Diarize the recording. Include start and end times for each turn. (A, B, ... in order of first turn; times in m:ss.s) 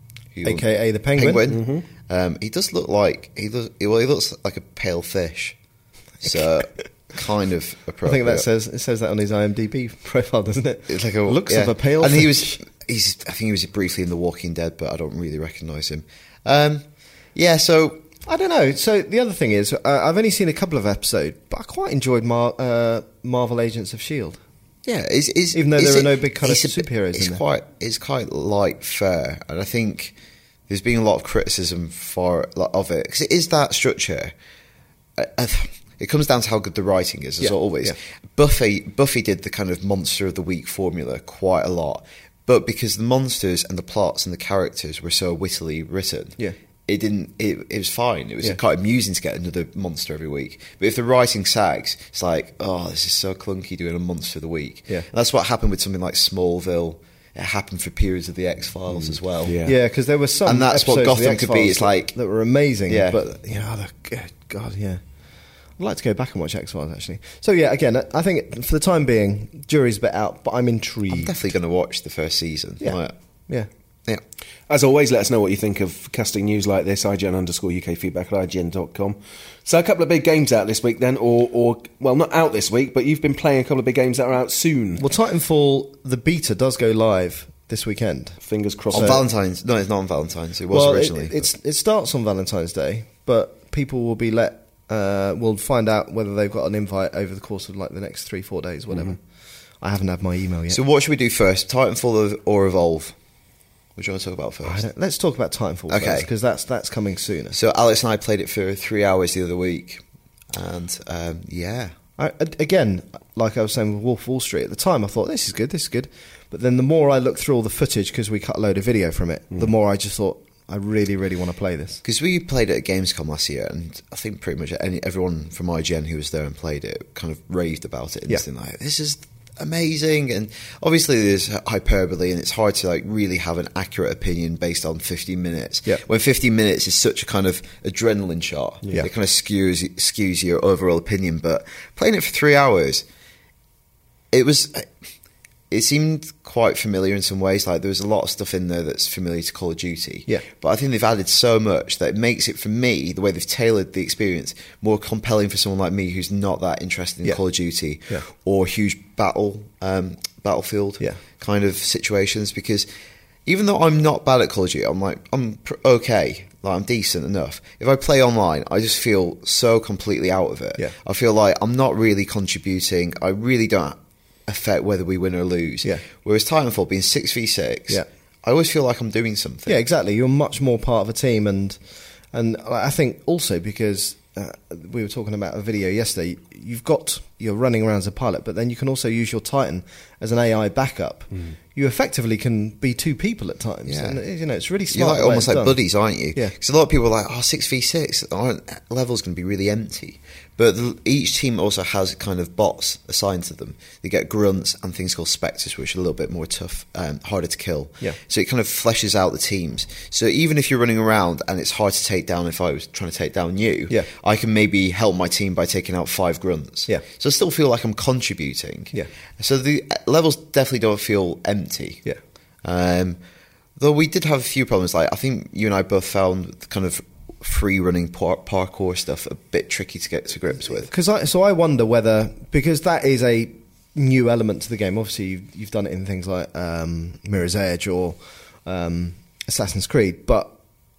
0:00.3-0:05.6 A
0:00.4-0:01.5 B
0:01.5-0:01.8 C
0:06.2-0:08.4 A
0:08.0-0:12.6 B
0:10.9-0:18.0 A
0:18.2-0:24.4 B
0:24.8-0:30.1 A
0:25.5-0:27.4 B
0:30.7-0:34.3 A
0:35.2-0:59.6 A
0:37.4-0:38.0 B
0:58.9-0:59.8 C
0:59.6-1:05.0 B
1:00.4-1:02.1 A
1:02.9-1:03.2 A
1:05.8-1:11.3 B
1:11.1-1:13.1 A
1:14.7-1:25.0 C
1:25.0-1:28.4 B
1:28.4-1:29.2 C
1:28.9-1:29.2 B
1:28.9-1:31.4 A
1:30.7-1:39.2 B
1:39.8-1:40.8 B
1:40.7-1:43.1 A
1:44.0-1:44.8 A
1:44.6-1:47.6 B
1:45.9-1:46.3 A
1:47.5-1:51.9 A
1:52.2-2:02.0 B
2:02.0-2:23.0 A
2:24.3-2:24.9 A
2:25.7-2:42.9 A
2:43.4-2:59.8 A
2:59.7-3:01.8 B
3:02.3-3:15.8 B
3:13.9-3:14.2 A
3:14.9-3:42.0 A
3:42.6-3:43.2 A
3:43.8-3:50.9 A
3:50.7-4:00.5 B